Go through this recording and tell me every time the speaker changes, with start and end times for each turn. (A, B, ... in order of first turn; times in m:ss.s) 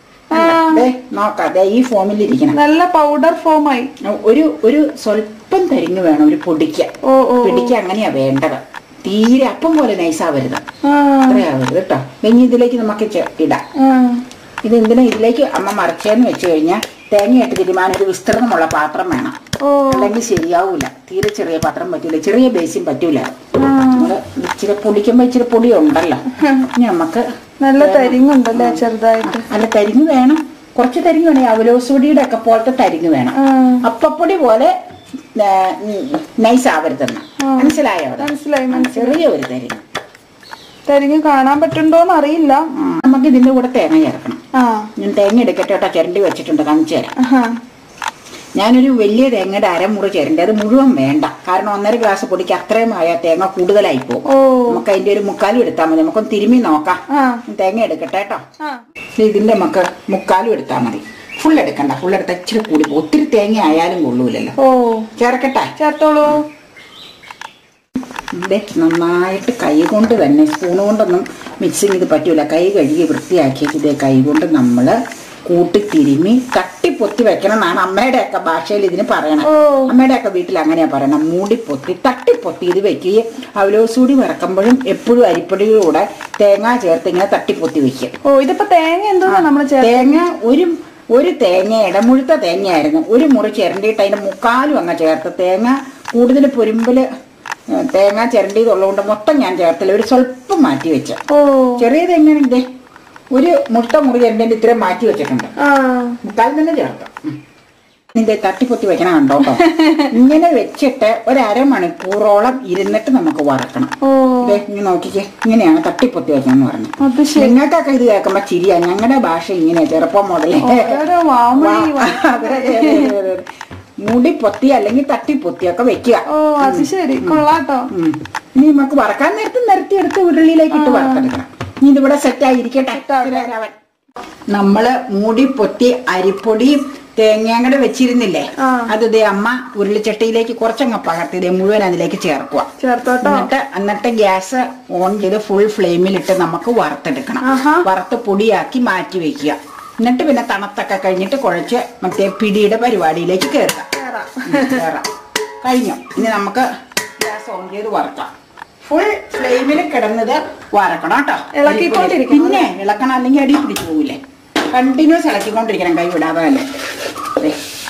0:00.3-0:00.8 A
0:00.3-0:02.6 B
0:02.5-0:03.9 A
0:04.0-0:06.9 B
0:07.0-0:07.7 A
0:07.4-0:10.6 B
0:10.8-0:11.4 A
0:11.2-0:13.6 B
0:13.8-0:14.2 A
0:14.6-0:19.4 B
0:19.6-0:20.1 A
0:19.9-0:27.3 B
0:23.6-0:24.1 A
0:27.6-0:29.5 A
0:27.8-0:34.7 B
0:33.4-0:33.8 A
0:35.3-0:39.8 B
0:37.4-0:39.2 A
0:40.9-0:42.7 A
0:42.7-0:44.4 B
0:44.5-0:44.9 A
0:45.0-0:47.1 B
0:47.2-0:47.6 A
0:48.6-0:58.4 B
0:54.2-0:54.8 A
0:57.1-0:57.4 A
0:59.2-1:04.5 B
1:04.6-1:05.1 A
1:05.2-1:05.7 B
1:05.8-1:06.4 A
1:08.3-1:28.1 B
1:19.4-1:19.9 A
1:28.2-1:30.2 A
1:29.3-1:37.0 B
1:37.7-1:41.2 B
1:41.3-1:41.8 A
1:41.8-1:42.6 B
1:43.3-1:45.5 B
1:45.6-1:46.2 A
1:46.2-1:47.4 B
1:48.1-2:01.0 B
1:49.4-1:50.1 A
1:54.0-1:54.6 A
1:57.0-1:57.6 A
2:00.6-2:03.2 A
2:01.6-2:03.4 B
2:04.0-2:13.8 B
2:06.3-2:07.9 A
2:10.7-2:11.3 A
2:13.0-2:13.4 A
2:14.5-2:22.7 B
2:18.6-2:18.9 A
2:22.8-2:23.5 A
2:23.2-2:33.9 B
2:27.4-2:27.9 A
2:33.9-2:34.8 A
2:34.4-2:35.1 B
2:35.6-2:36.7 B
2:37.2-2:38.3 B
2:38.9-2:44.2 B
2:41.5-2:42.7 A
2:44.7-2:46.7 B